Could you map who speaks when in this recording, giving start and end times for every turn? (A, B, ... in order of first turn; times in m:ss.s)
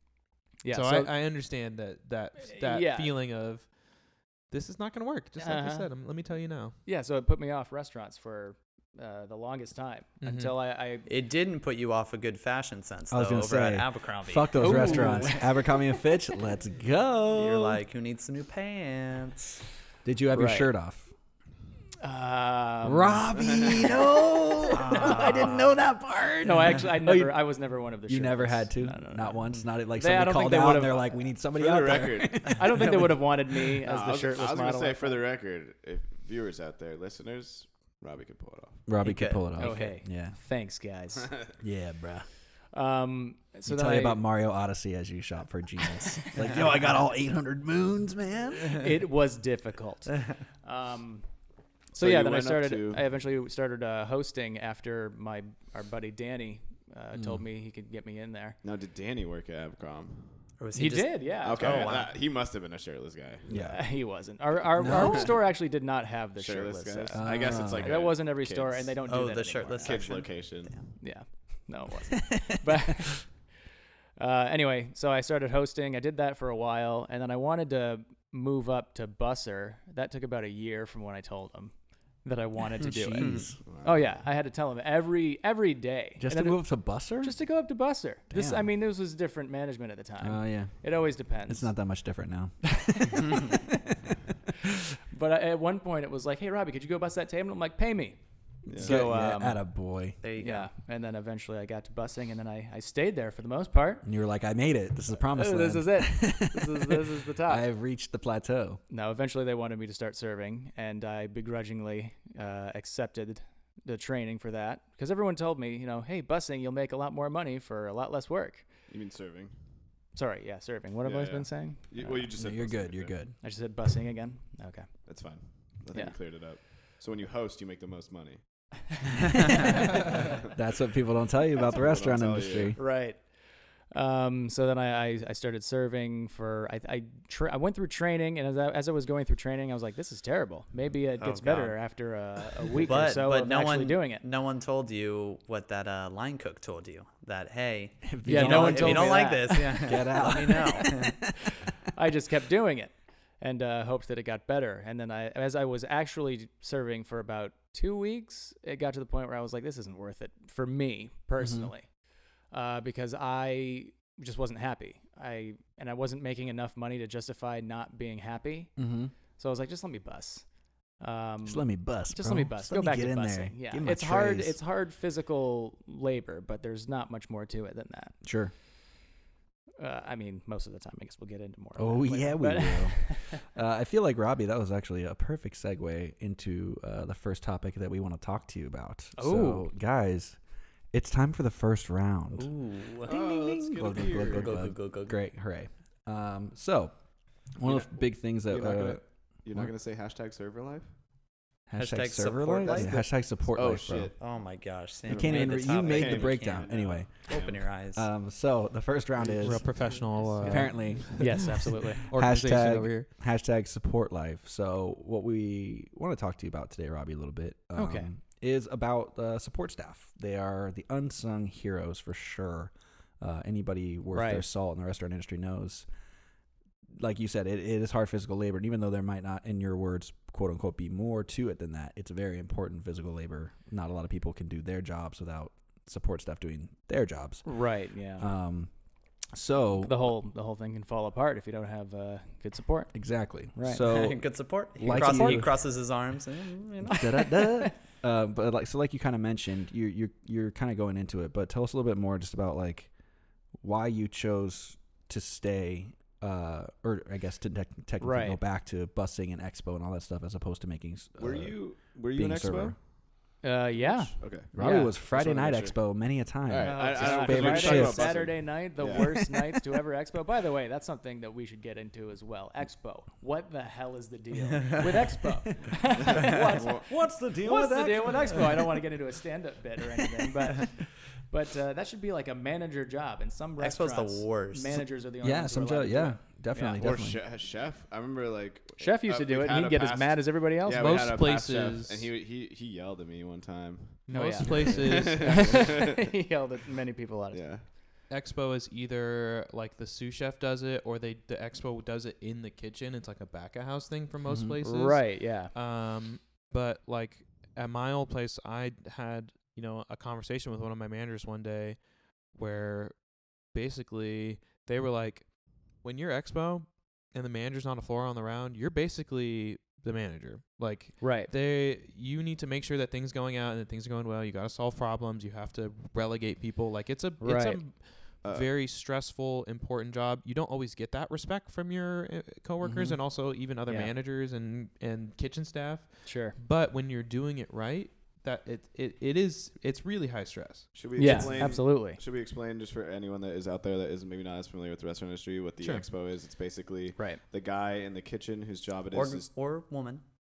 0:00.6-0:01.1 A
0:00.7-0:06.8 B
0:02.5-0:03.1 A
0:05.4-0:05.9 A
0:06.8-0:11.1 A
0:10.2-0:10.5 B
0:11.1-0:15.4 C
0:13.1-0:17.8 D
0:14.6-0:15.5 A
0:17.3-0:19.6 C
0:20.0-0:21.1 D
0:20.3-0:20.7 A
0:22.0-0:23.9 A
0:22.8-0:27.4 D
0:23.4-0:23.8 E
0:24.7-0:25.8 C
0:24.9-0:25.5 A
0:26.4-0:31.3 A
0:28.1-0:33.2 D
0:31.6-0:32.6 E
0:32.4-0:35.2 A
0:32.8-0:33.1 C
0:33.8-0:38.9 E
0:38.9-0:40.4 D
0:39.0-0:40.0 C
0:39.6-0:41.3 A
0:41.6-0:42.3 D
0:42.7-0:44.2 A
0:43.7-0:48.9 D
0:48.8-0:51.2 A
0:51.9-0:58.6 A
0:52.0-0:53.1 E
0:57.1-0:57.4 D
0:58.6-1:00.5 E
1:00.6-1:02.2 C
1:00.7-1:02.0 A
1:01.4-1:03.5 E
1:03.5-1:03.8 D
1:03.5-1:10.3 A
1:04.8-1:05.3 D
1:04.9-1:05.4 E
1:06.4-1:09.0 E
1:07.1-1:07.9 D
1:09.1-1:10.3 C
1:09.8-1:11.0 E
1:11.0-1:13.4 A
1:14.2-1:26.6 A
1:22.8-1:23.6 D
1:23.6-1:24.1 E
1:26.2-1:27.4 D
1:27.2-1:31.7 A
1:28.3-1:28.6 D
1:30.2-1:30.8 D
1:31.4-1:33.6 D
1:32.9-1:33.8 A
1:35.1-1:38.2 A
1:38.7-1:39.0 E
1:38.7-1:39.6 A
1:38.7-1:40.2 D
1:40.2-1:40.7 C
1:40.4-1:44.1 A
1:44.0-1:48.8 D
1:45.2-1:47.6 A
1:48.9-1:58.7 A
1:58.9-1:59.6 E
2:00.1-2:02.3 A
2:01.0-2:03.2 E
2:02.4-2:03.3 D
2:03.4-2:04.9 A
2:05.1-2:08.9 E
2:09.9-2:10.4 E
2:10.5-2:12.8 D
2:11.6-2:12.8 E
2:12.8-2:13.3 A
2:13.9-2:24.2 A
2:21.2-2:21.8 C
2:22.8-2:31.2 C
2:28.0-2:31.5 D
2:28.2-2:30.0 A
2:31.9-2:41.9 A
2:41.4-2:41.7 D
2:42.5-2:48.7 A
2:48.8-2:49.1 D
2:49.4-2:50.5 A
2:51.0-2:58.2 A
2:51.4-2:54.6 D
2:58.2-2:58.5 D
2:59.8-3:03.4 A
3:01.8-3:10.4 D
3:09.2-3:09.7 A
3:10.9-3:12.5 D
3:12.4-3:13.2 C
3:13.0-3:14.6 E
3:13.1-3:16.9 D
3:14.1-3:15.2 C
3:17.6-3:19.0 D
3:17.6-3:20.9 E
3:21.7-3:24.1 D
3:21.8-3:23.0 C
3:22.6-3:24.2 E
3:24.2-3:28.1 C
3:25.1-3:27.6 E
3:25.1-3:27.1 D
3:27.9-3:29.7 D
3:29.2-3:30.5 E
3:29.4-3:33.1 B
3:30.4-3:32.1 A
3:30.4-3:31.3 D
3:32.1-3:45.9 D
3:37.8-3:38.1 A
3:44.1-3:44.4 A
3:47.0-3:57.5 D
3:57.4-3:58.3 A
3:58.2-3:58.7 D
3:59.3-4:00.1 D
3:59.8-4:02.9 A
4:02.9-4:05.6 D
4:03.5-4:03.9 A
4:03.8-4:07.1 C
4:04.9-4:05.5 A
4:06.8-4:12.9 D
4:07.0-4:07.7 A
4:13.5-4:22.8 D
4:18.0-4:18.4 A
4:21.2-4:22.8 E
4:23.4-4:24.9 A
4:23.8-4:25.8 E
4:24.5-4:28.3 D
4:26.5-4:29.3 E
4:26.6-4:46.8 A
4:34.6-4:35.2 C
4:35.7-4:36.9 E
4:36.3-4:36.5 C
4:36.8-4:38.8 D
4:43.6-4:44.8 C
4:45.2-4:47.2 D
4:46.8-4:56.1 E
4:48.8-4:51.0 A
4:50.7-4:52.1 B
4:54.1-4:55.6 B
4:54.1-4:57.4 A
4:57.3-4:57.7 E
4:58.1-5:41.3 B
5:04.3-5:04.6 D
5:04.6-5:05.5 A
5:21.0-5:21.3 A
5:27.2-5:27.6 A
5:28.2-5:28.5 E
5:33.7-5:33.9 A
5:36.0-5:36.4 A
5:40.7-5:49.3 E
5:41.0-5:42.0 A
5:48.9-5:50.0 C